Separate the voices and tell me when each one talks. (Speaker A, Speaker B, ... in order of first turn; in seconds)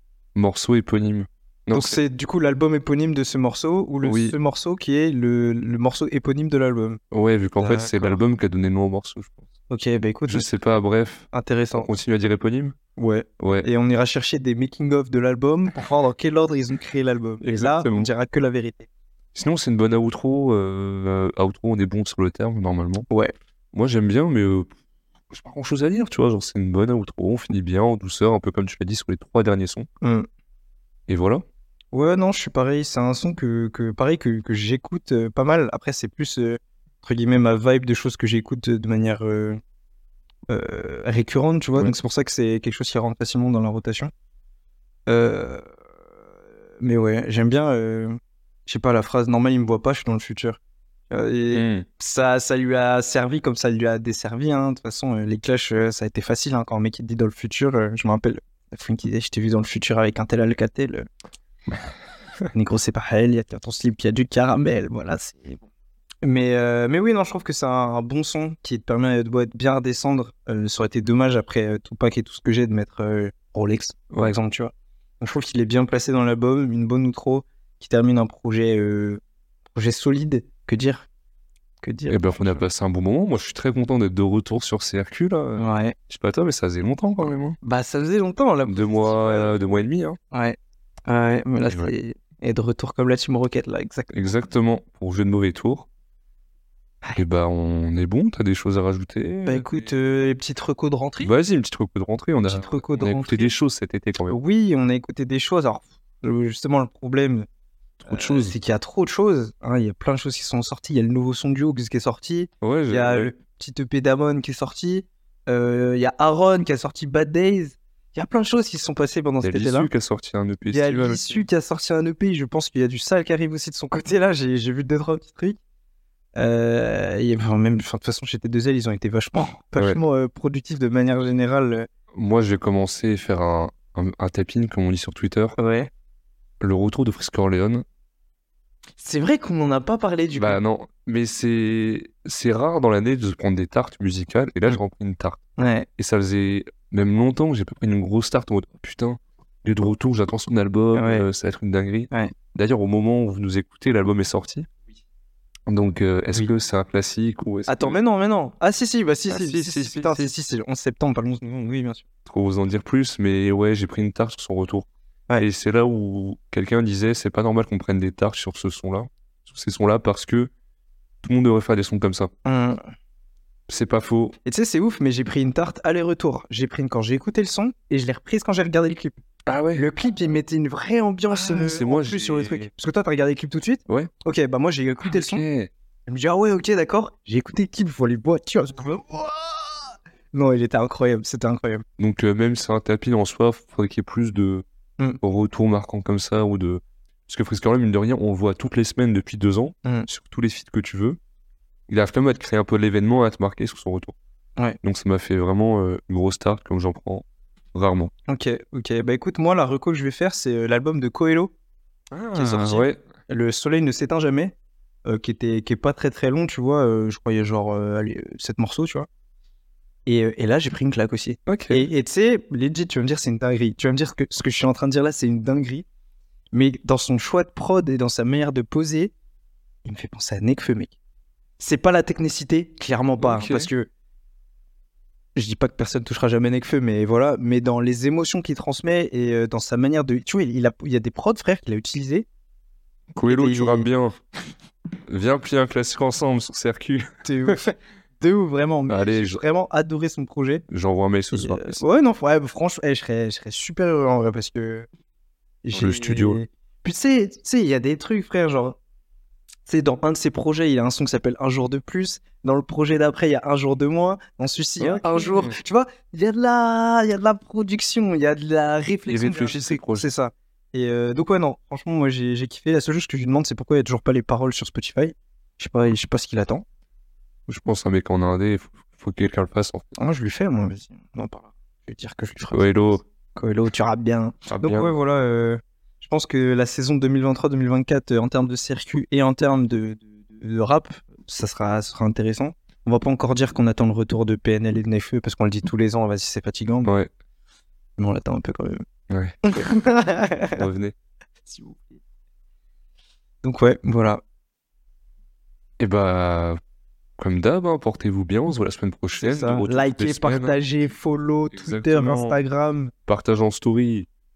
Speaker A: 0.3-2.0, 4.0-4.3, 7.1-9.5, 10.3-12.8, 13.4-13.7, 17.4-18.1, 19.3-23.1, 23.7-24.7, 25.3-29.9, 31.1-31.4, 51.5-51.9, 82.1-87.6, 88.6-90.2, 91.7-91.9, 94.1-95.9, 97.1-99.7, 101.2-104.4, 108.0-108.5, 112.6-113.3, 119.4-121.4, 132.1-135.6, 136.6-137.8, 140.4-145.4, 146.0-154.7, 155.7-158.0, 159.3-160.3, 162.2-164.9, 165.4-170.5, 171.2-172.3, 173.7-174.3, 179.5-179.9, 181.3-182.7, 185.0-185.7, 192.0-194.6, 195.2-201.2, 201.9-204.1, 204.8-208.1, 212.1-213.0, 221.5-221.9, 233.2-233.7, 243.1-244.2, 245.1-247.6, 248.9-249.4, 250.7-251.8, 255.7-256.4, 264.8-265.6, 269.1-270.1, 277.5-279.9, 282.5-283.0, 284.5-284.9, 296.8-297.1, 299.1-299.4, 300.5-300.9, 305.8-306.6, 307.2-310.6, 311.5-312.4, 313.1-314.1
Speaker B: 1.7-7.0, 7.6-8.2, 9.7-10.5, 11.3-11.9, 12.9-18.9, 30.0-30.3, 31.9-39.6, 40.5-44.1, 45.1-45.6, 46.8-50.6, 51.1-61.1, 62.5-65.7, 66.2-79.2, 79.7-81.1, 81.8-82.6, 85.6-86.0, 87.6-89.6, 90.3-94.1, 99.5-101.3, 102.5-103.5, 104.3-107.5, 108.1-119.9, 120.7-125.6, 126.3-131.9, 135.6-135.9, 139.0-140.6, 145.6-145.9, 150.9-151.3, 157.7-162.0, 172.4-172.8, 174.4-179.2, 179.7-185.4, 186.1-191.8, 208.3-211.5, 212.3-214.5, 215.1-219.1, 220.1-225.8, 226.5-229.1, 229.8-230.9, 231.6-233.9, 235.3-242.3, 243.3-243.9, 247.2-250.6, 251.3-254.9, 255.6-258.8, 259.6-276.6, 279.9-296.9, 298.0-298.8, 299.4-300.6, 301.4-302.0, 303.4-304.2, 309.2-312.9